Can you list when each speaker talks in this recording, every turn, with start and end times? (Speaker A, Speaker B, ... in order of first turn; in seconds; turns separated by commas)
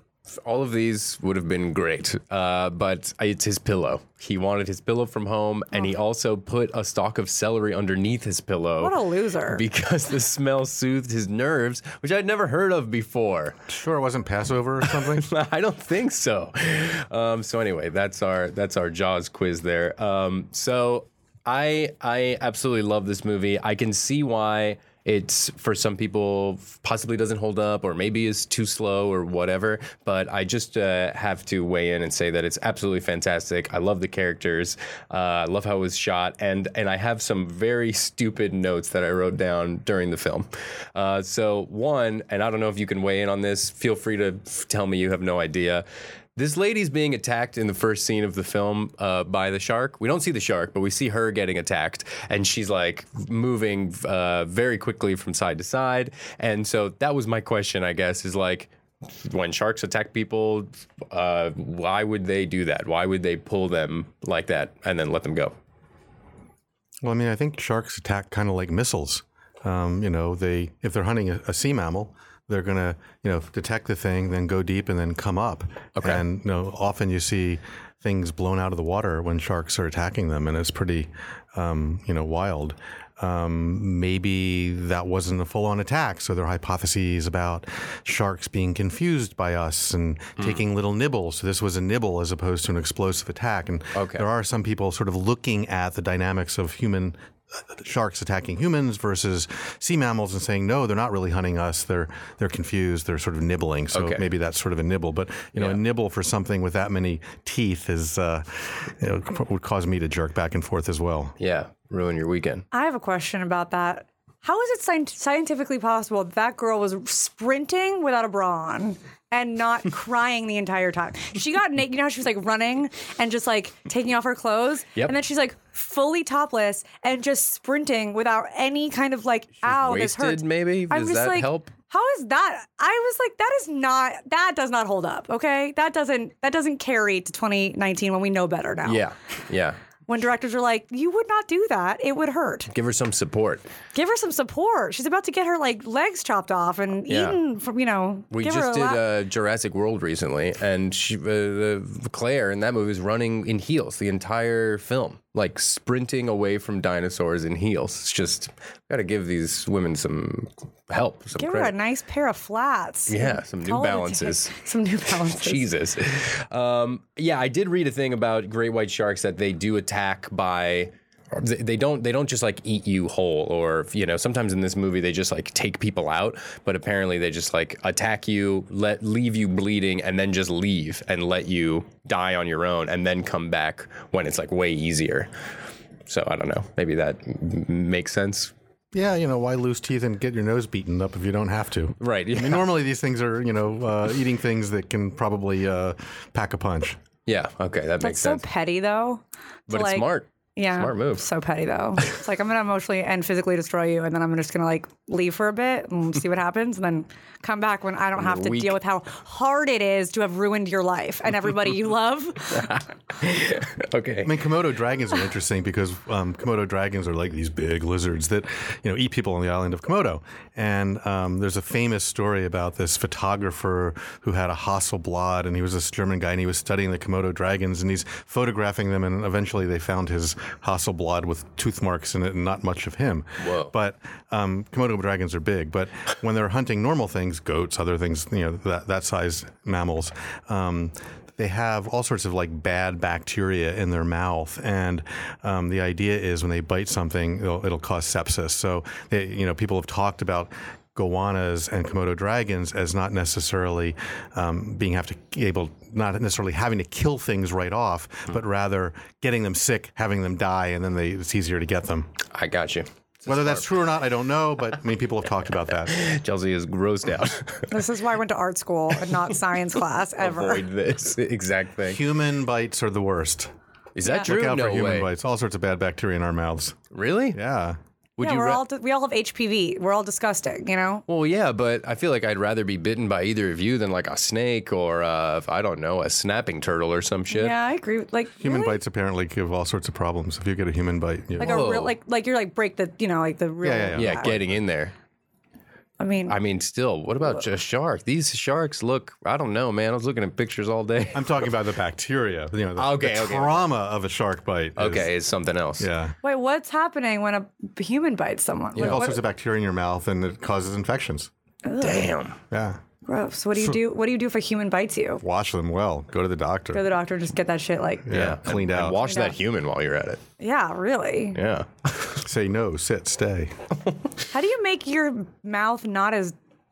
Speaker A: 0.4-13.6, Speaker B: 8.8-9.6, Speaker C: 13.7-15.3, Speaker A: 14.8-45.8, Speaker A: 46.4-65.5, Speaker C: 67.0-111.4, Speaker A: 76.0-76.2, Speaker A: 93.9-94.2, Speaker A: 103.9-104.2, Speaker A: 105.5-105.8, Speaker A: 111.4-112.6, Speaker B: 112.7-139.0, Speaker A: 129.6-131.7, Speaker A: 138.8-139.8, Speaker B: 140.1-142.7, Speaker A: 142.7-143.7, Speaker B: 143.9-149.0, Speaker A: 147.1-147.4, Speaker A: 148.3-161.7, Speaker B: 161.4-165.7, Speaker A: 163.1-164.5, Speaker A: 165.2-185.3, Speaker A: 186.1-188.5, Speaker C: 188.9-197.0, Speaker A: 192.0-192.7, Speaker A: 197.3-198.4, Speaker B: 198.0-212.8, Speaker A: 199.7-201.2, Speaker A: 208.2-208.8, Speaker A: 212.5-214.4, Speaker C: 214.2-262.1, Speaker A: 233.4-233.7, Speaker A: 262.3-263.6, Speaker C: 263.2-266.0, Speaker A: 265.9-267.8, Speaker B: 267.7-270.6, Speaker A: 270.2-272.0, Speaker C: 271.9-273.5, Speaker A: 273.9-275.1, Speaker C: 274.2-276.8, Speaker A: 276.9-277.4, Speaker C: 277.3-277.8, Speaker A: 278.2-278.6, Speaker B: 278.2-281.0, Speaker A: 281.1-287.6, Speaker B: 287.3-288.8, Speaker C: 288.4-291.6, Speaker A: 291.4-291.9, Speaker B: 291.4-294.3, Speaker C: 293.6-294.5, Speaker A: 293.9-294.9, Speaker B: 296.0-296.4, Speaker A: 296.3-301.5, Speaker C: 301.1-305.1, Speaker A: 302.8-303.6, Speaker A: 304.8-305.9, Speaker C: 305.8-306.1, Speaker B: 306.2-309.2, Speaker A: 308.7-309.0, Speaker C: 308.8-311.3, Speaker B: 311.6-312.1, Speaker A: 311.8-312.4, Speaker C: 312.5-312.8, Speaker B: 313.1-315.2, Speaker C: 315.2-316.8, Speaker B: 316.7-318.2, Speaker C: 318.1-319.0, Speaker A: 318.1-320.2, Speaker B: 319.0-319.4, Speaker B: 320.4-321.4, Speaker A: 321.3-321.7, Speaker C: 322.2-323.5, Speaker B: 324.3-326.3